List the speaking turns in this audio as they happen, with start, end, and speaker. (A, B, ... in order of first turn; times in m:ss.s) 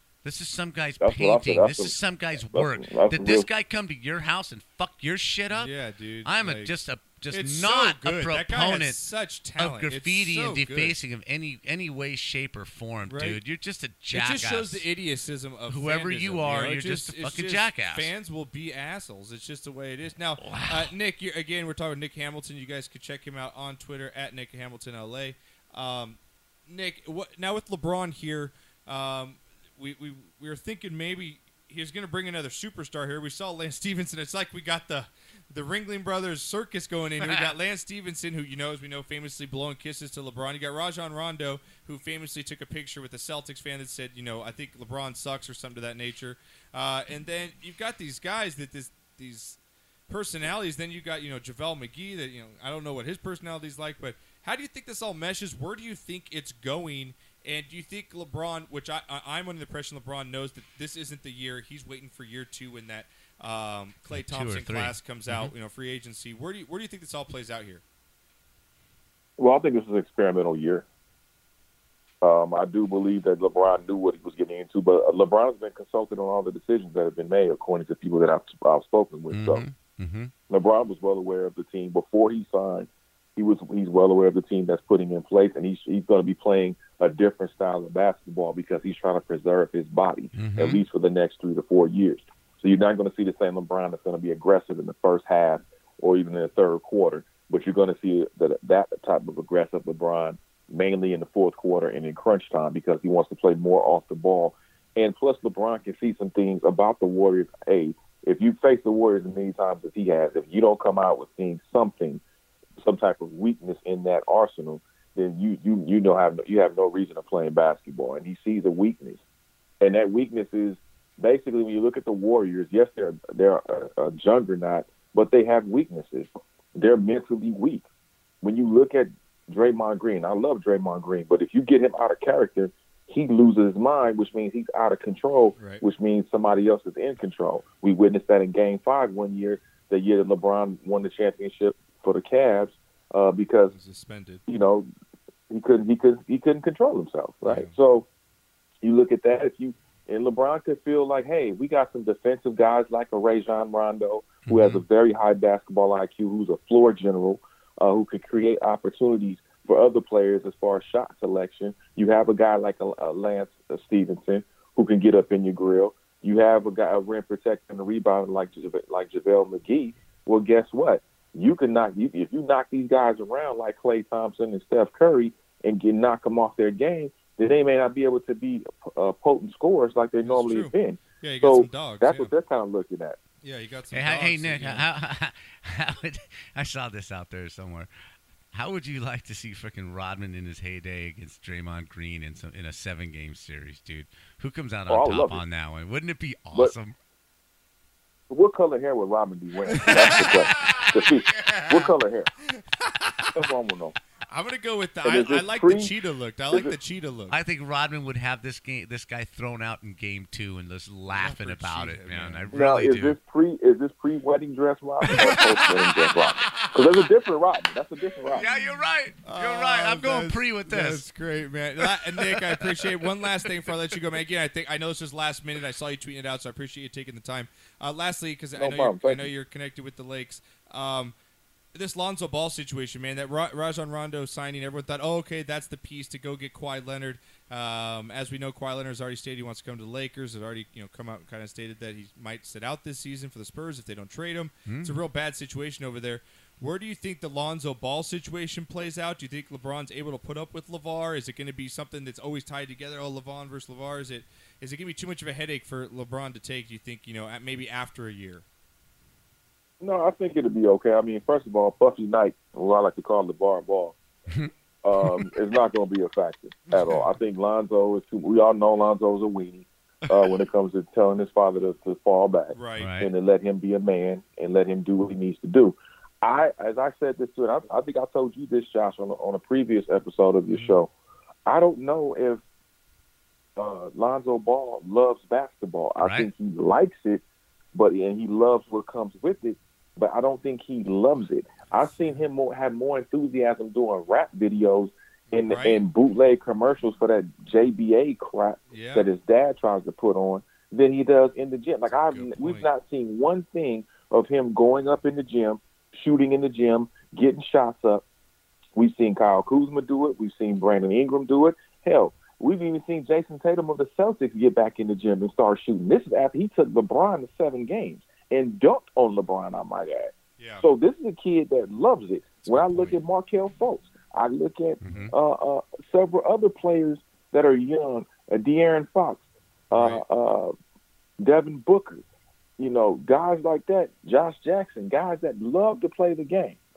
0:00.2-0:05.7 A
0:01.0-0:03.5 B
0:05.5-0:06.7 C
0:06.2-0:09.0 A
0:07.3-0:11.0 C
0:09.6-0:14.8 A
0:13.1-0:13.4 C
0:14.1-1:07.8 C
0:15.7-0:18.1 A
0:20.4-0:20.9 A
0:37.2-0:37.5 A
1:04.1-1:05.5 A
1:09.4-1:10.8 B
1:12.2-1:19.6 B
1:19.3-1:20.3 A
1:20.5-1:52.2 B
1:30.4-1:30.8 A
1:52.8-1:59.2 B
1:59.8-2:07.8 B
2:08.4-2:23.7 B
2:15.6-2:15.8 C
2:23.7-2:24.4 C
2:24.5-2:24.9 B
2:25.5-2:28.1 B
2:27.4-2:27.7 C
2:28.8-3:03.2 B
2:34.4-2:34.8 A
3:00.2-3:02.3 C
3:03.4-3:04.8 C
3:03.9-3:07.9 A
3:08.5-3:16.9 A
3:14.9-3:15.4 B
3:18.3-3:22.3 B
3:19.8-3:21.9 C
3:19.8-3:20.9 A
3:23.3-3:24.0 B
3:24.3-3:27.4 C
3:25.0-3:25.9 B
3:27.3-3:33.2 A
3:31.1-3:32.5 C
3:32.5-3:38.4 B
3:35.1-3:36.7 A
3:38.3-3:41.0 A
3:39.2-3:51.1 C
3:42.3-3:42.8 A
3:48.6-3:49.2 B
3:51.7-4:18.4 C
4:04.6-4:05.0 A
4:19.8-4:24.0 B
4:24.3-4:25.3 A
4:24.8-4:40.9 B
4:32.5-4:32.9 C
4:32.8-4:33.1 A
4:41.4-4:42.4 B
4:43.6-4:47.2 B
4:46.0-4:46.3 A
4:47.7-5:08.0 B
4:55.4-4:55.8 C
4:58.7-4:59.1 C
5:01.9-5:02.7 C
5:08.8-5:30.5 B
5:20.4-5:20.6 C
5:22.5-5:22.9 C
5:24.8-5:25.1 A
5:29.7-5:30.0 C
5:31.2-5:32.0 B
5:32.6-5:36.6 B